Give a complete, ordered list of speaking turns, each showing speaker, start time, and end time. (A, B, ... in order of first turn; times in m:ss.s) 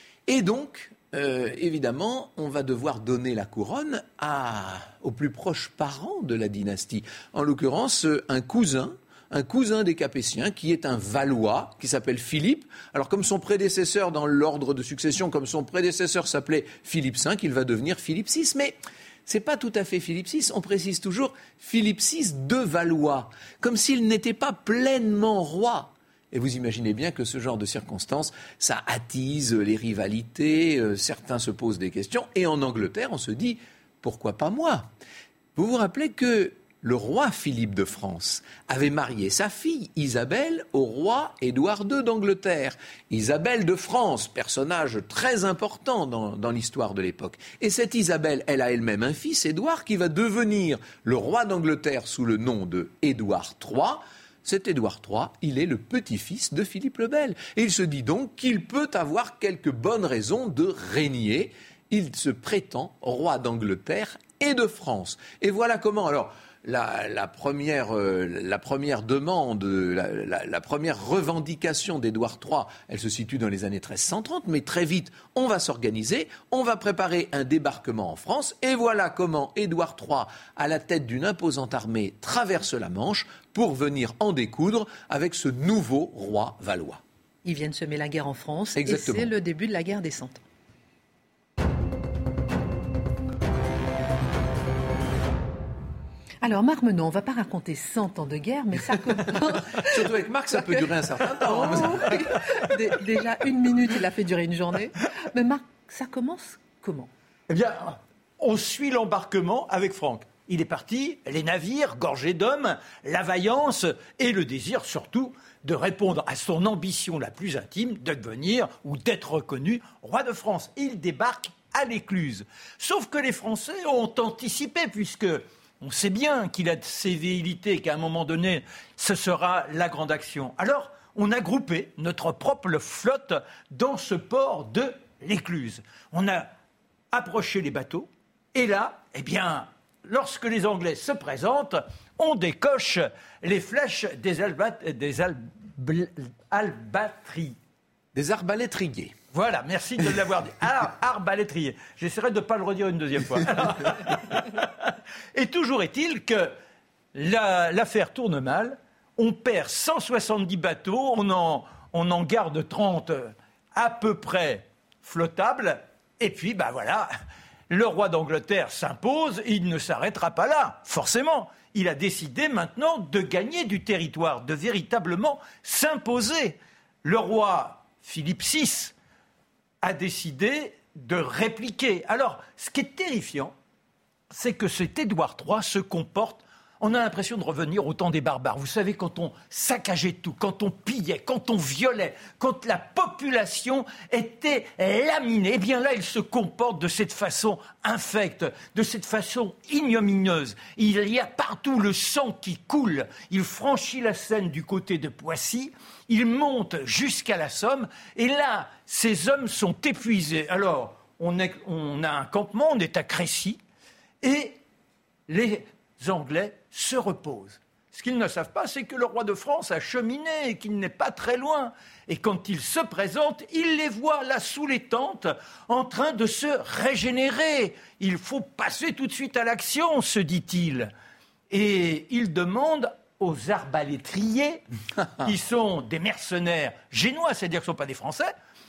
0:00.3-0:18.8 A
0:19.3-0:34.9 A
0:35.6-1:27.0 A
1:27.4-1:30.4 B
1:28.8-1:29.3 A
1:36.4-1:40.0 B
1:39.6-1:42.3 A
1:41.4-1:47.1 B
1:47.5-2:16.5 C
2:17.1-2:27.6 C
2:28.1-2:29.1 A
2:29.3-2:36.5 C
2:37.1-2:47.1 C
2:47.7-2:58.9 C
2:59.8-3:03.5 C
3:04.3-3:33.6 C
3:34.2-3:34.6 C
3:35.3-3:50.9 C
3:51.5-3:54.6 C
3:55.1-3:58.3 C